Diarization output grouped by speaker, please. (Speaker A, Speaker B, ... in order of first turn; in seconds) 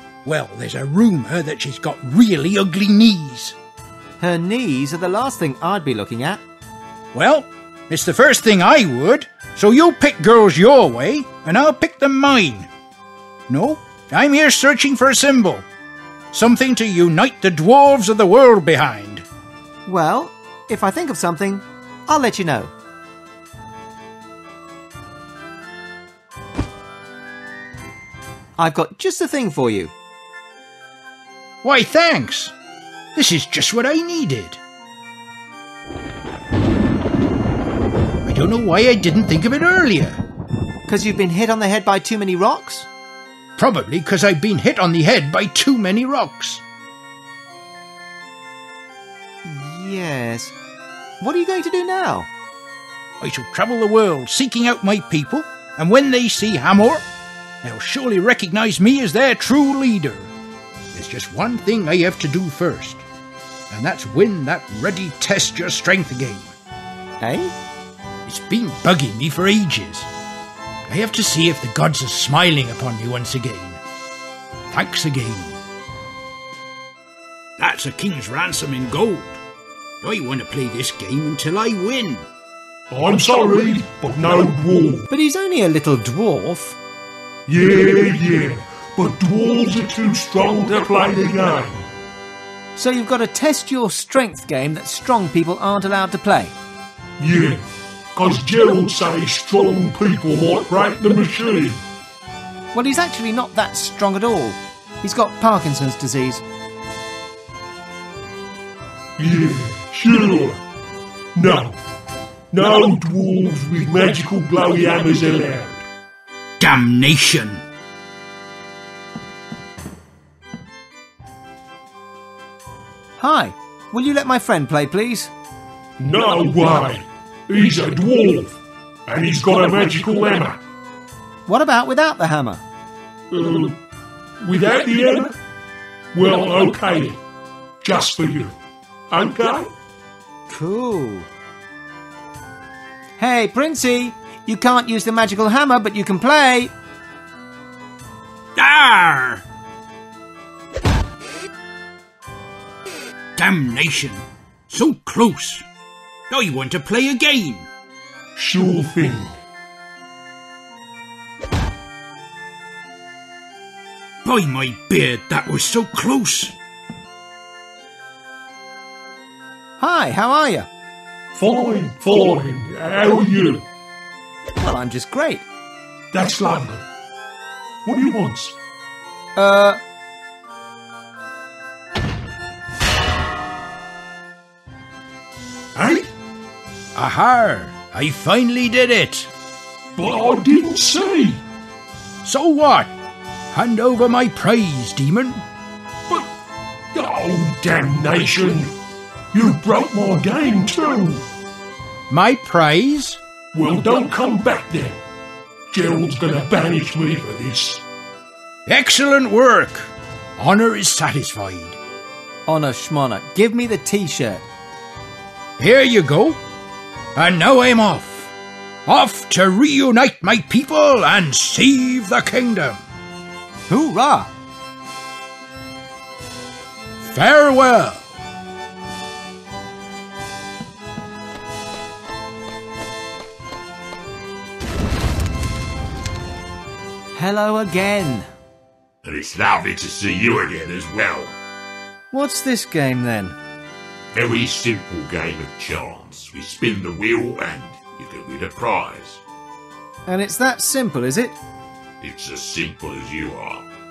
Speaker A: 0.2-3.6, 7.1-12.7, 13.5-15.7, 16.3-19.3, 31.6-32.5, 33.1-34.6, 38.2-40.2, 43.6-46.6, 53.2-57.1, 57.6-60.3, 60.9-63.0, 63.7-66.5, 68.3-70.1, 70.9-73.8, 74.7-75.6, 77.6-79.4, 80.0-82.3, 116.6-117.6, 148.6-149.4, 153.4-155.7, 156.3-157.7, 164.2-166.6, 186.9-189.3, 192.2-192.9, 193.5-195.4, 202.1-203.2, 208.7-211.8, 215.6-216.4, 217.2-218.3, 218.9-222.9, 227.0-228.2
Speaker B: 4.2-6.4, 19.9-22.7, 28.6-29.9, 40.9-42.9, 49.4-50.5, 51.2-52.3, 67.2-67.5, 85.1-86.8, 92.8-96.5, 102.7-106.4, 123.2-125.3, 131.5-132.6, 140.5-141.3, 143.2-146.7, 169.8-170.7, 174.6-175.5, 179.4-179.8, 212.5-214.5, 223.7-224.3, 237.1-238.3, 242.1-243.4, 250.1-251.4
Speaker C: 82.9-85.1, 87.5-91.9, 97.2-101.8, 109.2-110.6, 111.3-111.8, 112.5-115.8, 126.0-130.6, 133.3-133.8, 134.4-135.4, 136.1-137.2, 137.8-138.6, 139.1-139.7, 158.4-159.3, 171.3-173.7, 176.1-176.8, 177.8-178.6, 185.8-186.1, 190.0-191.4, 196.9-198.8, 199.3-201.2, 203.5-205.0, 205.7-207.8
Speaker D: 239.0-241.4, 244.1-249.2, 252.0-253.7